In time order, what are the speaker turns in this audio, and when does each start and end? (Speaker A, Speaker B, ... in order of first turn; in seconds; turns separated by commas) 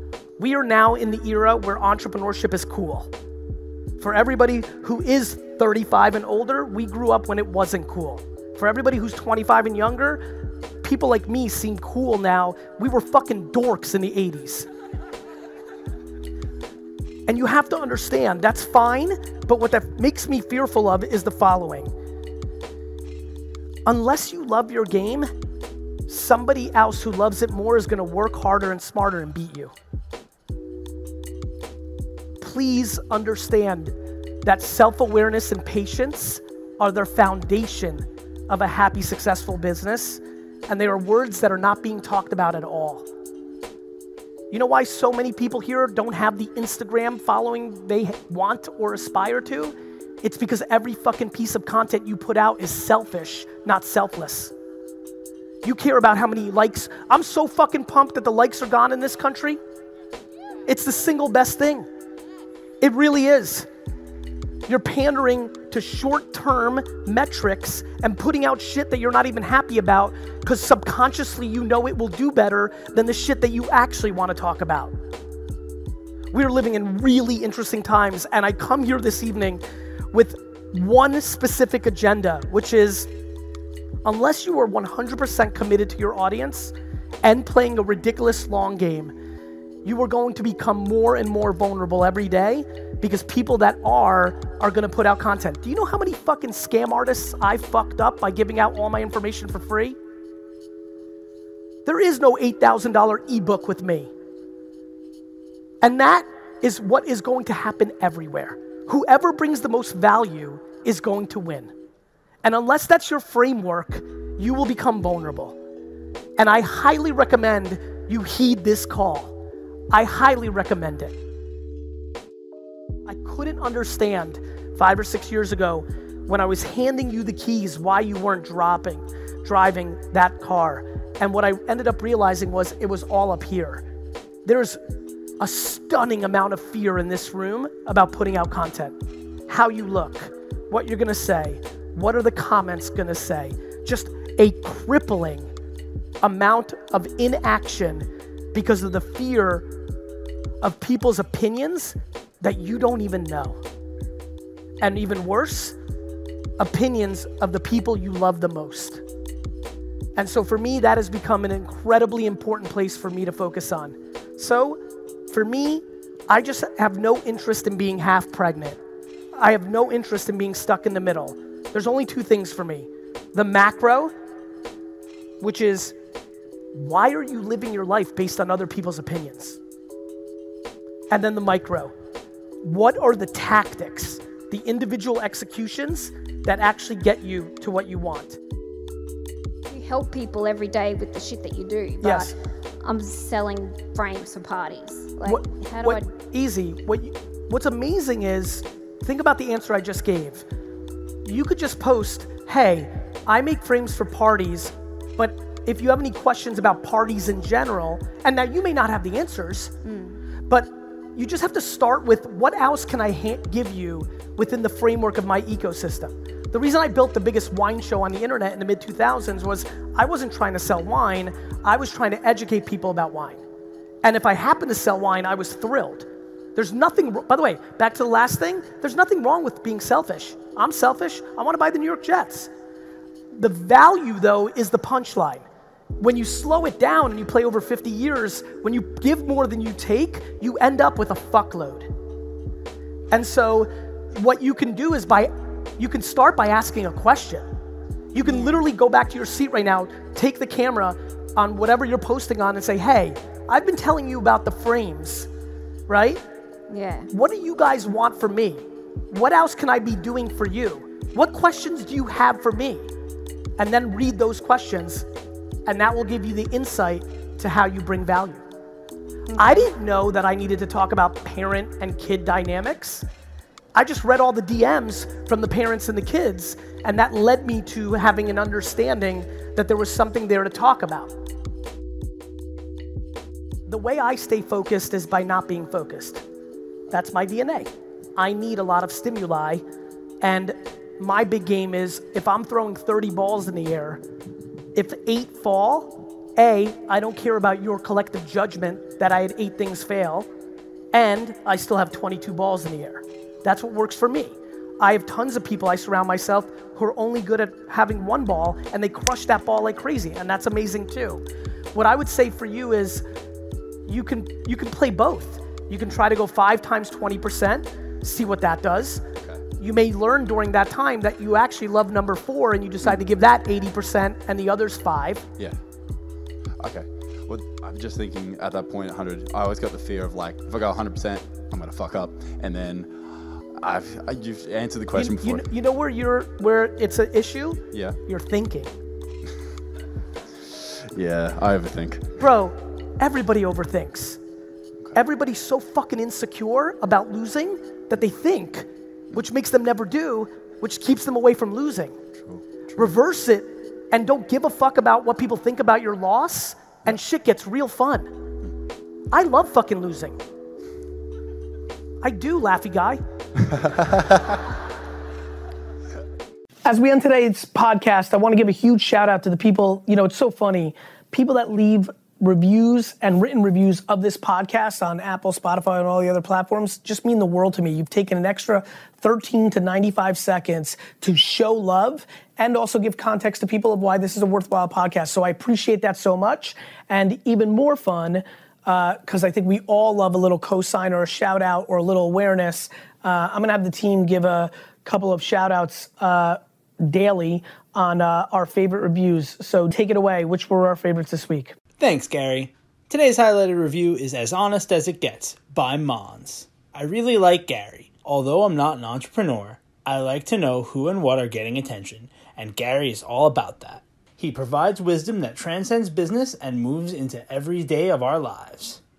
Speaker A: 0.4-3.1, Speaker A: 4.0-10.2, Speaker A: 10.8-14.7, Speaker A: 17.3-21.9, Speaker A: 23.9-25.3, Speaker A: 26.1-29.7, Speaker A: 32.4-33.9, Speaker A: 34.4-43.1, Speaker A: 44.5-54.5, Speaker A: 55.6-59.6, Speaker A: 60.7-61.9, Speaker A: 62.8-63.7, Speaker A: 64.7-74.9, Speaker A: 76.3-83.1, Speaker A: 84.0-89.1, Speaker A: 89.8-100.0, Speaker A: 101.8-104.1, Speaker A: 105.8-111.7, Speaker A: 112.4-115.5, Speaker A: 116.4-119.3, Speaker A: 119.9-121.1, Speaker A: 123.1-133.8, Speaker A: 134.4-134.8, Speaker A: 135.4-138.9, Speaker A: 139.5-145.5, Speaker A: 146.2-149.7, Speaker A: 150.6-153.6, Speaker A: 154.8-155.8, Speaker A: 156.6-159.0, Speaker A: 160.2-168.8, Speaker A: 169.4-174.1, Speaker A: 175.4-175.9, Speaker A: 176.7-179.6, Speaker A: 181.1-181.9, Speaker A: 182.6-188.4, Speaker B: 189.7-196.0, Speaker A: 192.0-192.3, Speaker A: 195.2-200.4, Speaker A: 201.2-209.7, Speaker B: 209.8-210.2, Speaker A: 210.5-223.4, Speaker A: 224.0-232.5, Speaker A: 233.3-235.4, Speaker A: 236.0-241.9, Speaker A: 243.1-247.4, Speaker A: 248.1-255.3, Speaker B: 248.2-248.6, Speaker A: 255.9-256.2, Speaker B: 256.7-257.1, Speaker A: 257.1-262.9, Speaker A: 263.6-265.1, Speaker A: 265.6-268.4, Speaker A: 269.4-273.0, Speaker A: 273.7-281.1, Speaker A: 283.6-286.2, Speaker A: 286.9-289.6, Speaker A: 290.2-294.0, Speaker A: 294.7-300.3, Speaker A: 300.9-311.2, Speaker A: 311.7-313.0, Speaker A: 313.9-319.0, Speaker A: 319.6-325.3, Speaker C: 326.6-335.5, Speaker A: 334.9-338.7, Speaker C: 337.7-338.0, Speaker C: 340.5-342.2, Speaker A: 342.2-344.2, Speaker A: 344.9-351.9, Speaker C: 352.2-352.9, Speaker A: 352.8-358.1, Speaker A: 359.1-360.2, Speaker A: 362.0-363.0, Speaker A: 366.6-401.5, Speaker D: 401.8-418.8